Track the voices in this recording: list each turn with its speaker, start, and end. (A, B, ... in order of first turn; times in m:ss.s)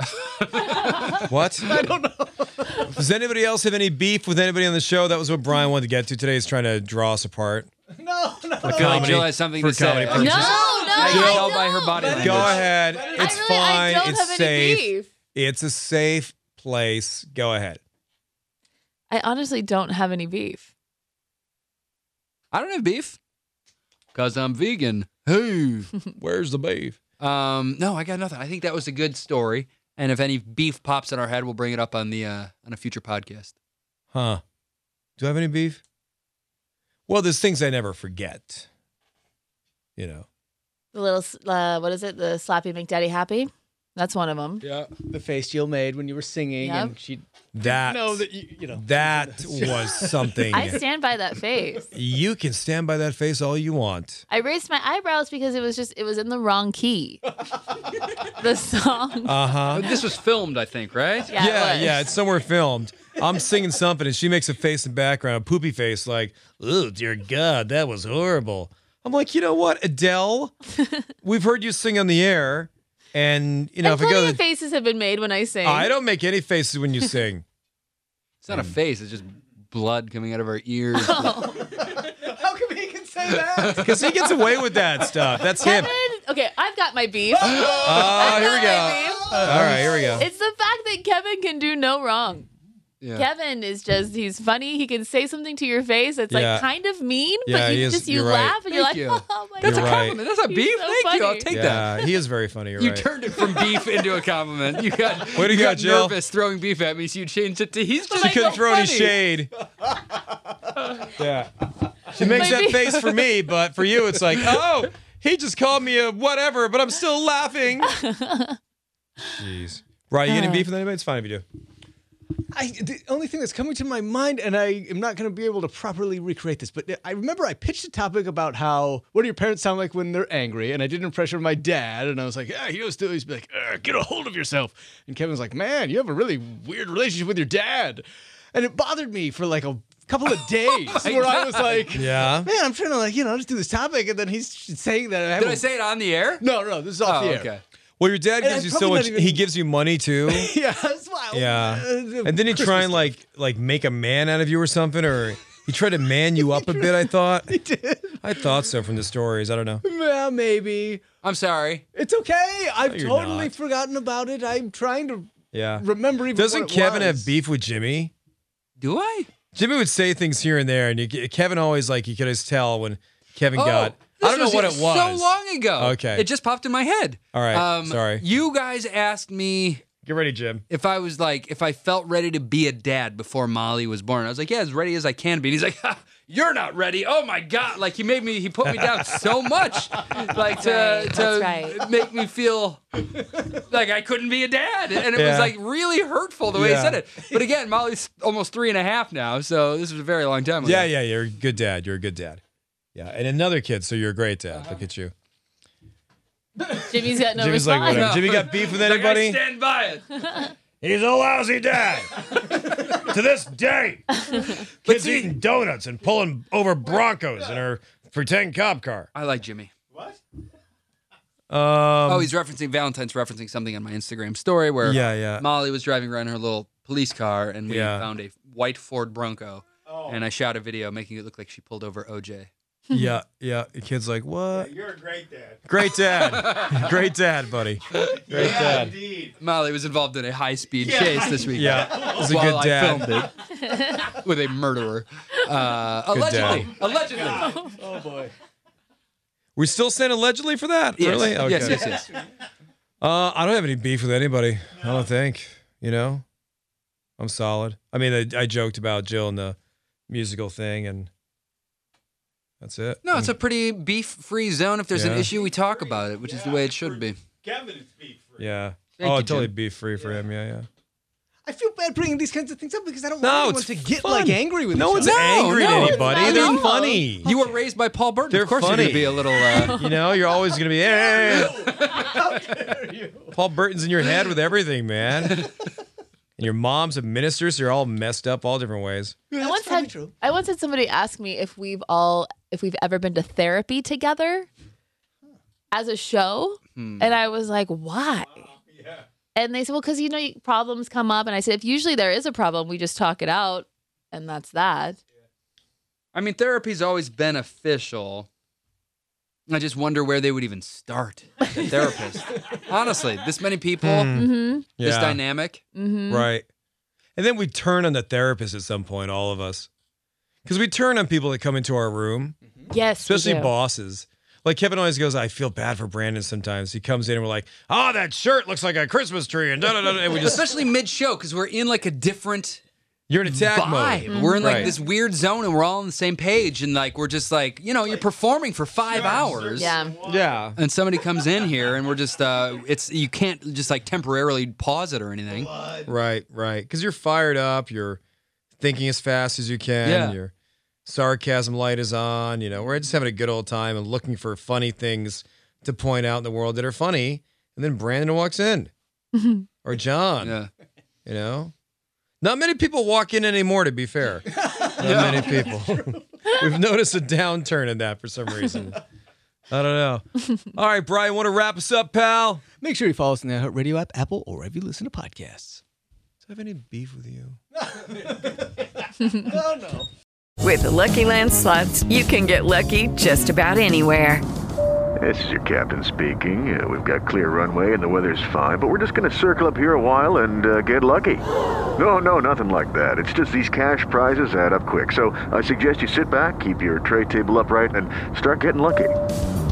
0:00.1-0:01.2 A
0:01.1-0:02.9 B
0:01.3-0:01.8 C
0:02.9-0:07.7 C
0:07.9-0:09.3 B
0:08.6-0:11.5 C
0:08.7-0:12.7 A
0:10.1-0:15.1 D
0:10.3-0:13.8 B
0:12.0-0:17.8 C
0:19.1-0:20.7 D
0:22.5-0:23.2 A
0:24.1-0:25.9 A
0:26.2-0:27.0 C
0:27.2-0:33.5 A
0:34.1-0:34.4 C
0:35.2-0:35.8 C
0:37.1-0:38.7 C
0:40.0-0:40.3 C
0:40.9-0:44.7 D
0:44.6-0:44.9 A
0:45.0-0:50.7 B
0:46.6-0:47.0 D
0:47.5-0:50.8 C
0:50.5-0:51.9 D
0:51.9-0:54.2 C
0:54.3-0:57.2 D
0:58.3-0:59.6 D
0:59.2-1:00.0 C
0:59.7-1:01.4 A
1:01.3-1:02.1 D
1:01.3-1:10.6 C
1:11.2-1:14.4 C
1:13.8-1:15.9 D
1:15.6-1:17.4 C
1:18.4-1:21.4 A
1:20.9-1:21.6 D
1:21.5-1:25.9 B
1:23.6-1:23.9 A
1:23.8-1:25.9 C
1:25.6-1:32.5 D
1:27.4-1:30.2 B
1:27.8-1:30.3 C
1:33.0-1:33.3 A
1:33.2-1:41.5 D
1:36.3-1:36.7 C
1:37.5-1:38.6 C
1:38.7-1:42.0 A
1:39.6-1:40.2 C
1:41.5-1:43.1 C
1:42.8-1:48.9 A
1:45.3-1:46.2 C
1:48.1-1:49.5 C
1:48.3-1:49.2 B
1:51.2-1:51.5 C
1:52.1-1:58.0 C
1:52.1-1:53.1 D
1:57.9-1:58.5 D
1:59.2-2:01.4 C
2:00.3-2:00.6 D
2:02.5-2:25.6 B
2:20.9-2:21.9 A
2:21.9-2:22.5 C
2:25.4-2:26.5 A
2:26.4-2:27.5 B
2:27.0-2:27.6 A
2:28.0-2:30.5 C
2:28.4-2:29.4 B
2:30.3-2:33.1 B
2:31.3-2:37.5 C
2:36.4-2:38.4 B
2:38.2-2:39.8 C
2:39.8-2:41.0 B
2:41.2-2:41.8 A
2:41.9-2:47.3 B
2:42.9-2:43.5 C
2:45.5-2:48.1 C
2:48.8-2:49.3 A
2:49.5-2:56.3 C
2:53.6-2:59.8 A
2:57.3-2:58.2 C
3:00.0-3:00.6 C
3:00.7-3:20.9 A
3:08.6-3:09.3 C
3:10.6-3:11.8 D
3:15.1-3:15.6 C
3:16.5-3:17.0 C
3:20.6-3:22.4 C
3:23.0-3:25.1 C
3:24.5-3:24.8 A
3:26.7-3:28.5 D
3:27.1-3:29.4 C
3:27.9-3:30.1 A
3:30.2-3:30.5 D
3:30.8-3:39.1 C
3:34.8-3:35.3 A
3:39.1-3:39.7 A
3:39.9-3:40.2 B
3:41.5-3:42.3 C
3:42.1-3:52.5 A
3:44.8-3:45.5 C
3:47.7-3:48.1 C
3:49.9-3:50.2 B
3:52.9-3:54.7 C
3:54.5-3:55.6 B
3:55.7-3:59.0 C
3:56.2-3:56.8 A
3:58.1-4:07.7 A
3:58.2-3:59.3 B
4:00.8-4:02.2 B
4:01.5-4:03.3 C
4:03.6-4:04.0 D
4:06.1-4:06.7 C
4:07.1-4:08.3 B
4:09.6-4:12.0 C
4:11.0-4:12.1 A
4:11.4-4:12.2 B
4:13.0-4:16.2 C
4:17.2-4:19.6 C
4:20.1-4:21.1 C
4:22.6-4:23.4 C
4:23.0-4:27.2 A
4:24.9-4:25.3 C
4:25.6-4:28.4 B
4:28.4-4:30.7 C
4:29.0-4:29.5 A
4:31.4-4:37.4 B
4:33.2-4:37.3 C
4:35.0-4:36.7 A
4:36.0-4:36.7 D
4:37.2-4:39.8 A
4:38.3-4:41.7 C
4:39.4-4:39.9 D
4:40.9-4:43.4 B
4:41.3-4:42.2 A
4:43.3-4:45.5 C
4:46.4-4:49.2 C
4:49.3-4:50.2 B
4:49.4-4:54.5 D
4:55.7-4:58.5 D
4:56.8-4:57.1 A
4:59.4-5:05.0 D
5:06.1-5:08.3 A
5:09.5-5:14.2 A
5:13.8-5:15.2 C
5:14.1-5:14.7 D
5:14.8-5:15.6 A
5:15.8-5:16.3 D
5:16.1-5:16.4 C
5:17.2-5:19.7 C
5:20.5-5:22.4 C
5:22.7-5:23.5 D
5:23.0-5:30.4 C
5:30.1-5:32.6 A
5:33.1-5:34.8 C
5:33.3-5:39.8 A
5:34.1-5:34.8 D
5:39.0-5:40.0 B
5:39.5-5:40.1 D
5:40.0-5:40.6 C
5:40.6-5:45.5 A
5:45.4-5:45.9 B
5:45.9-5:48.0 C
5:48.6-5:50.3 C
5:49.8-5:50.2 A
5:50.9-5:58.7 C
5:59.2-5:59.4 D
5:59.6-6:00.4 C
6:00.2-6:00.5 A
6:01.1-6:01.5 C
6:02.2-6:08.8 C
6:04.5-6:06.0 B
6:04.8-6:05.3 A
6:09.5-6:12.4 C
6:12.6-6:15.6 B
6:16.2-6:17.4 C
6:17.6-6:19.9 B
6:20.4-6:24.2 E
6:25.0-6:31.2 F
6:31.8-6:39.0 F